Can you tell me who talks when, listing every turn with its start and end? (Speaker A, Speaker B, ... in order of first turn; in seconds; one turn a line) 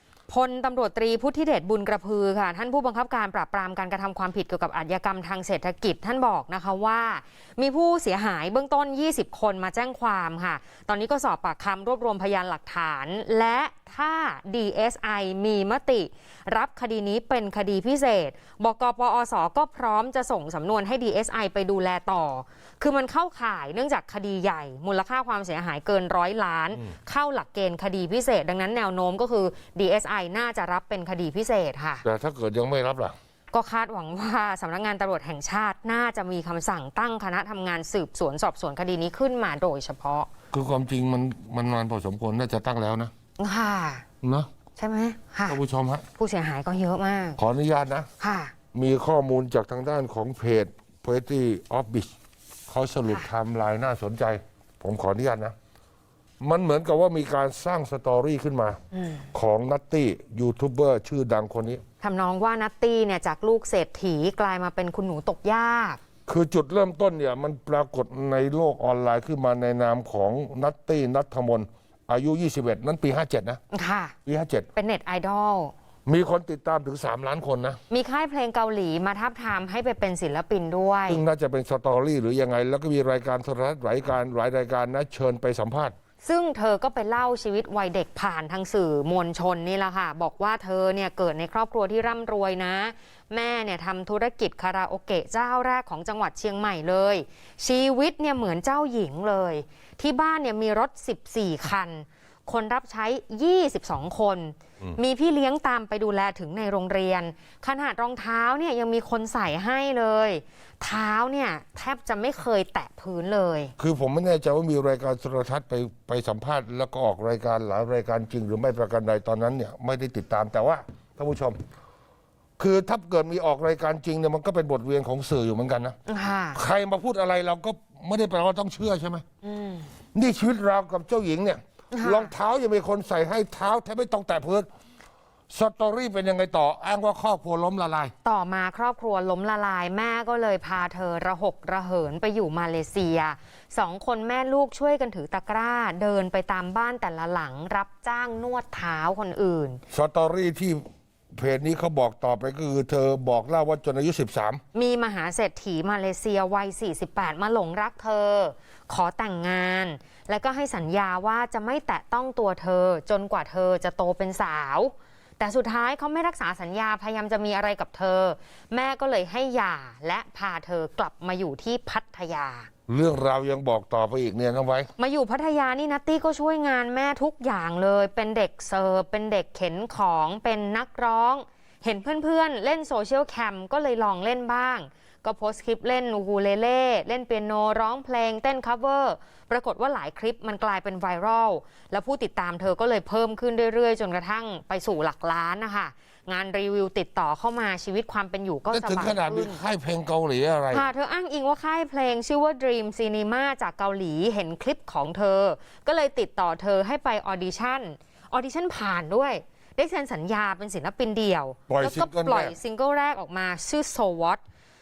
Speaker A: 0.3-32.0
Speaker B: 32.0-33.1
Speaker A: 33.5-40.3
Speaker B: 40.5-43.1
Speaker A: 43.4-44.0
Speaker B: 44.2-44.5
Speaker A: 44.8-45.6
Speaker B: 45.5-46.0
Speaker A: 46.2-47.4
Speaker B: 47.4-48.1
Speaker A: 48.2-48.5
Speaker B: 48.7-52.1
Speaker B: 52.7-55.5
Speaker B: 56.4-58.8
Speaker A: 58.9-59.3
Speaker B: 59.3-61.8
Speaker A: 62.0-66.0
Speaker B: 66.3-73.6
Speaker A: 73.7-74.1
Speaker B: 74.2-74.7
Speaker A: 74.8-75.7
Speaker B: 76.0-77.8
Speaker A: 77.9-81.2
Speaker B: 81.1-85.9
Speaker A: 86.2-113.7
Speaker B: 113.8-121.6
Speaker B: 122.6-126.0
Speaker A: 126.1-126.6
Speaker B: 126.5-129.2
Speaker A: 129.4-129.9
Speaker B: 130.1-134.7
Speaker A: 131.9-132.3
Speaker B: 135.5-138.1
Speaker A: 138.2-149.8
Speaker B: 149.9-154.6
Speaker A: 154.7-172.7
Speaker B: 172.9-174.9
Speaker A: 175.0-199.6
Speaker B: 198.7-200.9
Speaker A: 200.7-214.4
Speaker B: 211.7-212.5